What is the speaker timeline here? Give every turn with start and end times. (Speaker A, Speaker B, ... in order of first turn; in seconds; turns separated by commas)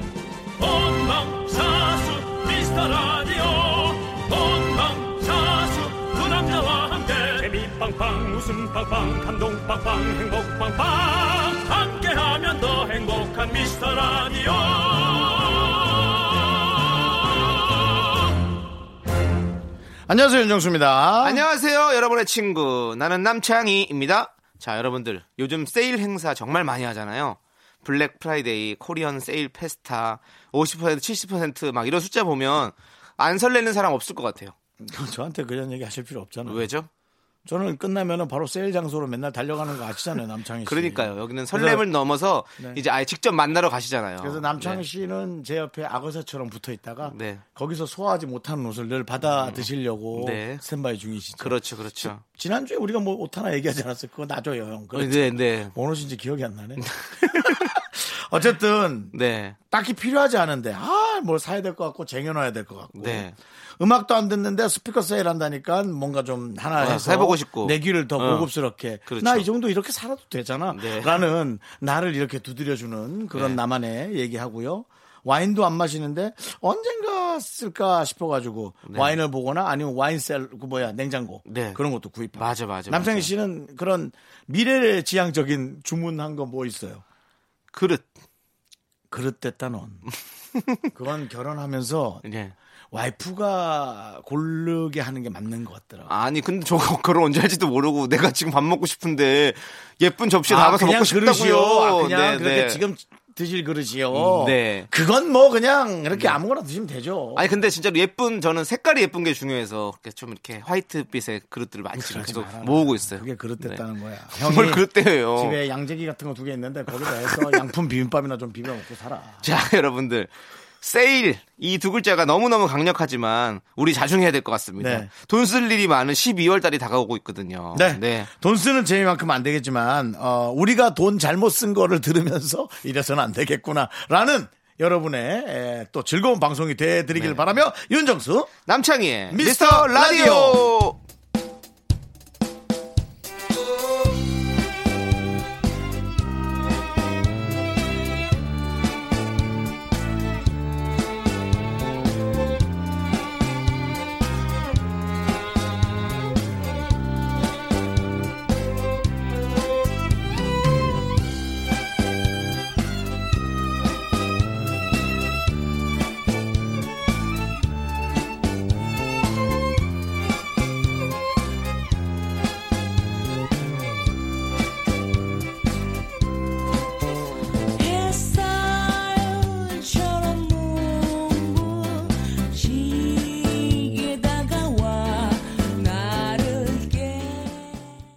Speaker A: 0.6-17.0, Speaker B: 20.1-21.4, Speaker C: 21.2-34.5, Speaker B: 34.8-36.7, Speaker C: 36.5-36.9, Speaker B: 37.5-41.9, Speaker C: 40.7-44.8, Speaker B: 44.2-59.1, Speaker C: 47.0-47.4, Speaker C: 49.3-50.6, Speaker C: 51.4-52.2, Speaker C: 54.9-55.7, Speaker C: 56.8-57.8, Speaker C: 59.1-59.6, Speaker B: 59.7-87.0, Speaker C: 62.9-63.4, Speaker C: 66.8-68.5, Speaker C: 69.1-69.5, Speaker C: 70.7-71.2, Speaker C: 73.3-73.6, Speaker C: 78.8-79.2, Speaker C: 81.5-81.8, Speaker C: 82.4-83.3, Speaker C: 87.7-88.1, Speaker B: 89.1-90.1, Speaker C: 90.5-90.9, Speaker B: 90.9-92.2, Speaker C: 92.2-92.5, Speaker B: 92.9-96.1, Speaker C: 96.1-102.8, Speaker B: 100.5-107.5, Speaker C: 104.1-104.9, Speaker C: 106.1-106.4, Speaker C: 107.3-115.6, Speaker B: 112.0-119.5, Speaker C: 117.0-117.7, Speaker C: 119.4-128.3, Speaker B: 124.8-125.1, Speaker B: 127.7-138.5, Speaker C: 137.2-137.5, Speaker C: 138.7-141.0, Speaker B: 139.3-140.7, Speaker D: 177.8-187.9